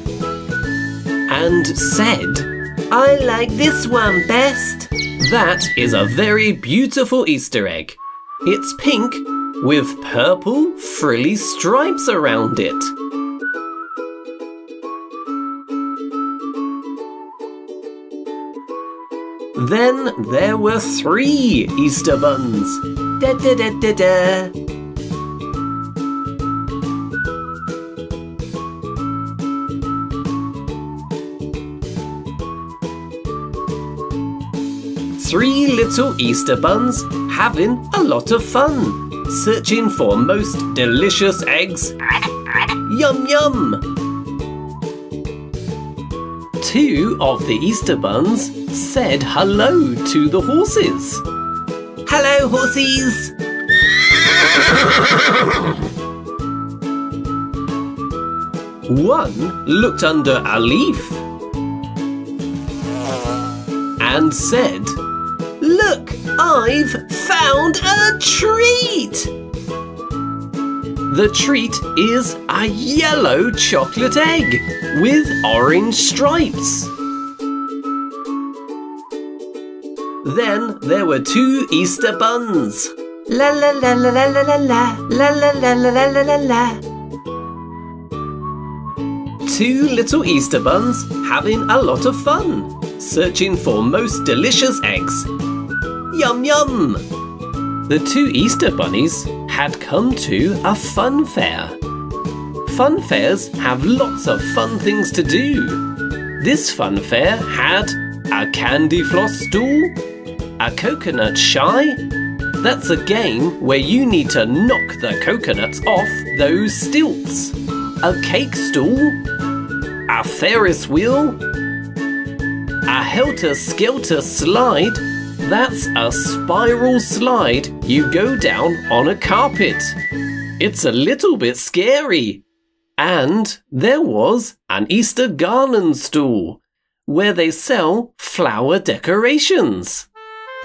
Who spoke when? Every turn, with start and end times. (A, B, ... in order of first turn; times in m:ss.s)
0:01.3-0:12.9 A
0:19.6-0:24.5 A
0:35.2-0:42.0 A
0:42.6-0:43.9 A
0:46.6-0:51.2 A
0:52.0-0:53.3 A
0:58.9-1:01.2 A
1:04.0-1:05.0 A
1:05.6-1:09.3 A
1:11.1-1:16.9 A
1:20.2-1:26.8 A
1:29.4-1:35.3 A
1:36.1-1:37.0 A
1:37.9-1:41.8 A
1:42.6-1:45.8 A
1:46.4-1:50.0 A
1:50.6-1:52.0 A
1:52.6-1:59.2 A
2:00.1-2:01.4 A
2:02.9-2:10.0 A
2:10.6-2:12.4 A
2:13.0-2:20.1 A